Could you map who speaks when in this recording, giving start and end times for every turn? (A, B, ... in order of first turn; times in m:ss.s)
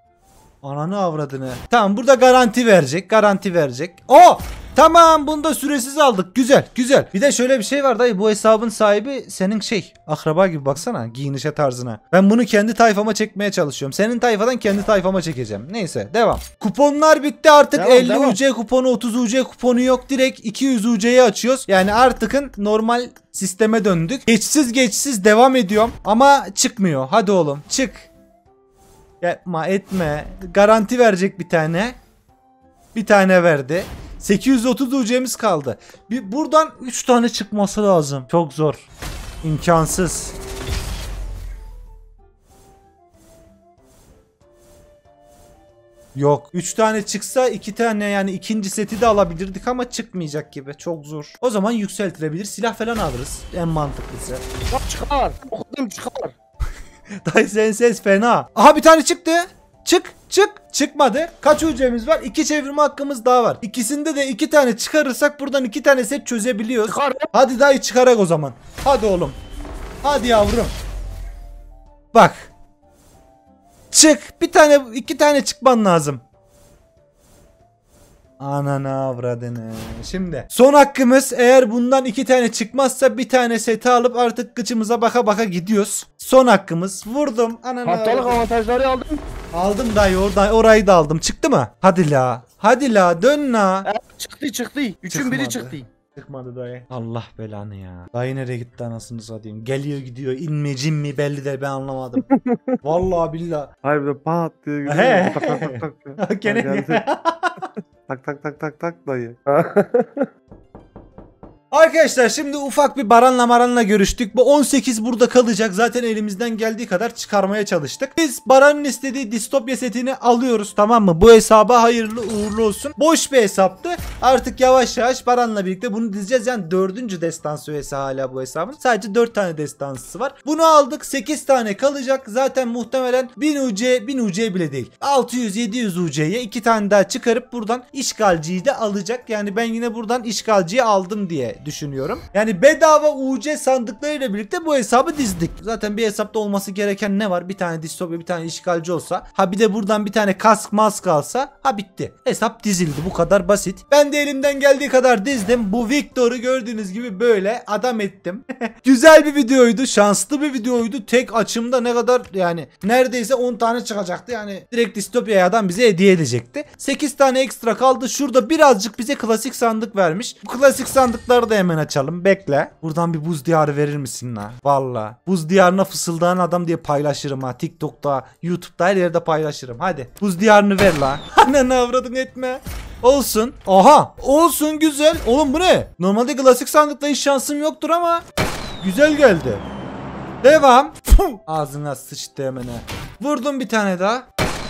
0:00.6-0:28.1 A
0:17.8-0:18.4 B
0:29.2-0:32.0 A
0:33.0-0:38.9 A
0:39.4-0:40.4 A
0:46.2-0:54.4 A
0:54.7-0:56.3 B
0:57.3-1:09.4 A
1:06.9-1:07.3 B
1:10.0-1:10.7 A
1:12.1-1:12.5 A
1:13.9-1:16.2 A
1:18.4-1:28.4 A
1:27.8-1:29.2 B
1:29.5-1:33.9 A
1:33.9-1:35.8 B
1:35.1-1:42.3 A
1:42.8-1:43.8 A
1:43.8-1:47.0 C
1:44.9-1:47.7 A
1:48.1-1:50.3 C
1:51.7-3:08.2 A
3:08.8-3:09.6 A
3:10.4-3:14.3 A